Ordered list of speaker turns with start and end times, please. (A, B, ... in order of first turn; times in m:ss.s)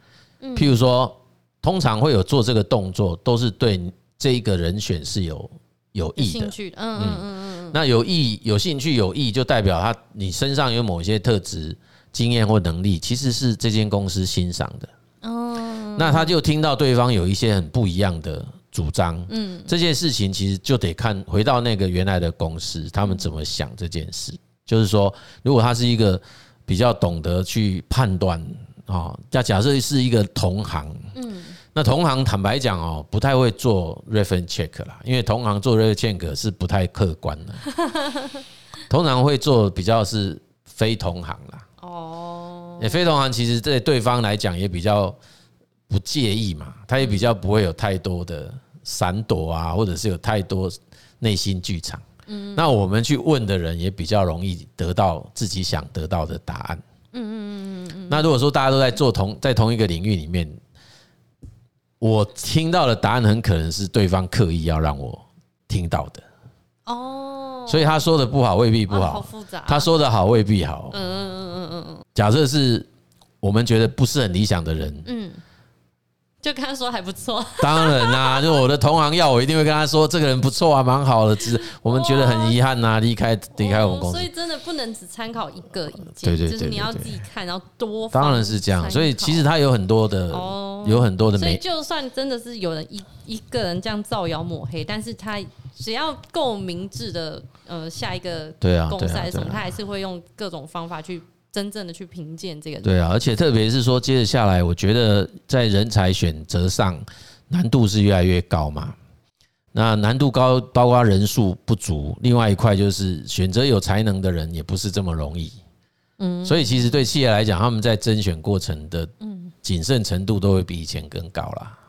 0:00.4-0:00.8 A
0:00.6-0:14.9 B
0:06.2-0:07.8 A
0:15.2-0:16.4 A
0:16.0-0:31.1 B
0:19.3-0:19.7 A
0:31.1-0:31.6 A
0:31.7-0:37.6 B
0:38.0-0:38.3 A
0:38.9-0:41.6 B
0:41.8-0:43.0 A
0:42.8-0:45.2 B
0:45.9-0:52.0 B
0:47.0-0:47.3 A
0:52.3-0:52.7 A
0:52.5-0:56.8 B
0:57.1-0:58.3 A
0:58.1-1:00.6 B
1:02.0-1:06.2 B
1:06.8-1:08.0 A
1:07.7-1:11.0 B
1:08.9-1:09.9 A
1:10.9-1:12.0 A
1:12.1-1:12.9 B
1:13.4-1:15.1 B
1:15.0-1:15.4 A
1:16.4-1:18.6 A
1:17.6-1:24.3 B
1:21.6-1:22.6 A
1:23.6-1:29.5 A
1:26.2-1:27.2 B
1:28.1-1:31.6 B
1:30.3-1:42.9 A
1:38.6-1:39.7 B
1:42.8-1:49.0 B
1:49.7-1:55.6 B
1:56.2-1:57.0 A
1:56.4-1:59.1 B
1:59.2-1:59.5 A
1:59.6-2:01.8 B